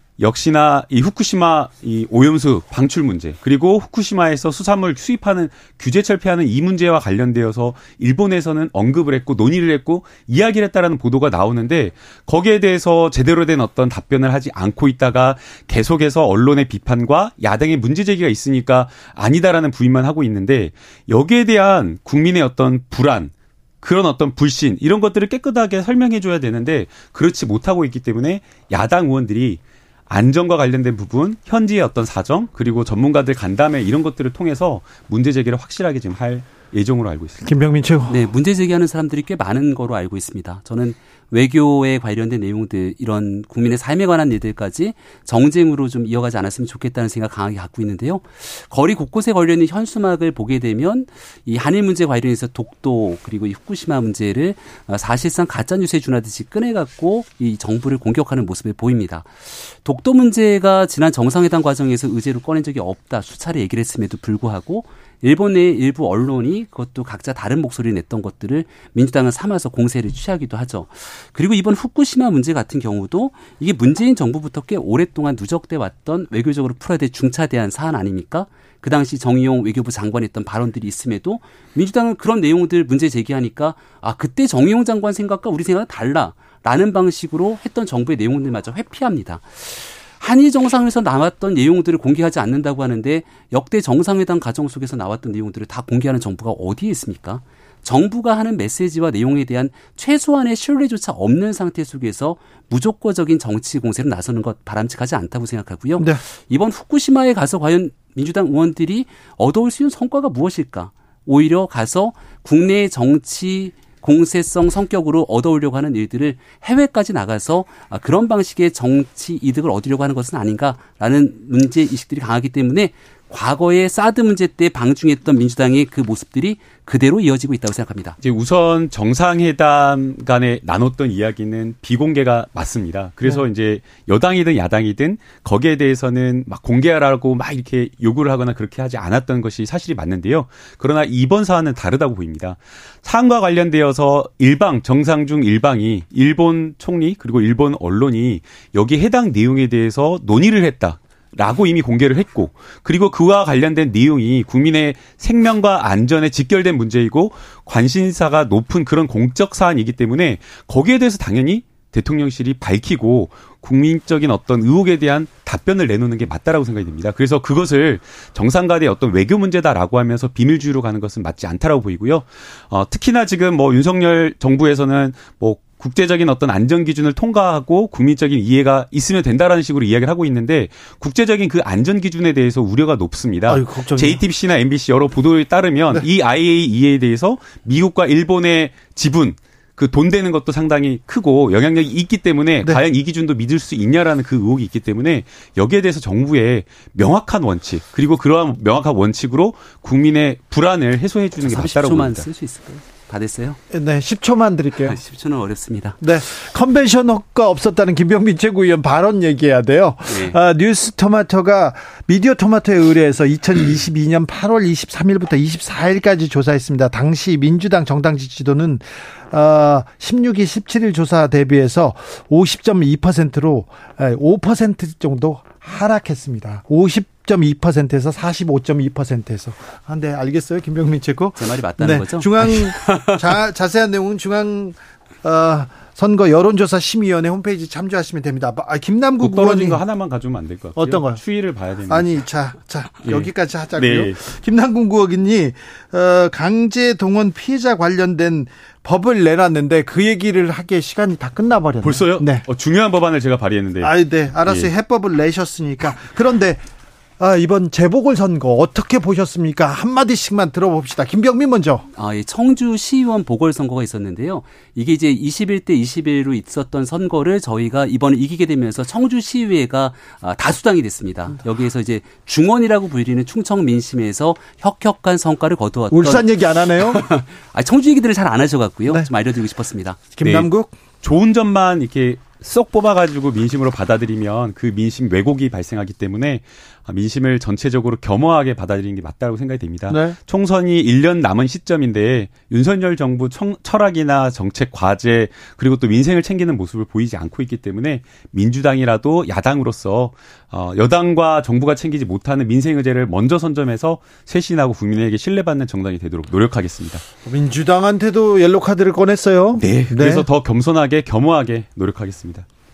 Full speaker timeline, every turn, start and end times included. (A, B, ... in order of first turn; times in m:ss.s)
0:00.2-0:37.4 A
0:37.4-0:38.2 B
0:38.1-2:08.2 C
2:08.2-3:22.3 A
3:03.5-3:04.2 B
3:21.4-3:23.6 C
3:23.7-3:25.0 B
3:24.8-3:26.0 C
3:26.0-3:59.8 B
3:30.1-3:30.4 C
3:51.4-3:53.3 C
3:59.2-4:02.2 A
4:00.8-4:01.2 B
4:01.9-4:12.4 B
4:03.0-4:04.2 A
4:11.8-4:14.7 A
4:13.8-4:16.6 B
4:17.2-4:21.8 B
4:21.9-4:40.1 C
4:35.9-4:37.0 B
4:40.2-4:40.7 B
4:40.2-4:40.5 A
4:41.0-5:07.0 A
4:49.9-4:50.2 B
5:07.2-5:10.3 B
5:09.6-5:12.4 A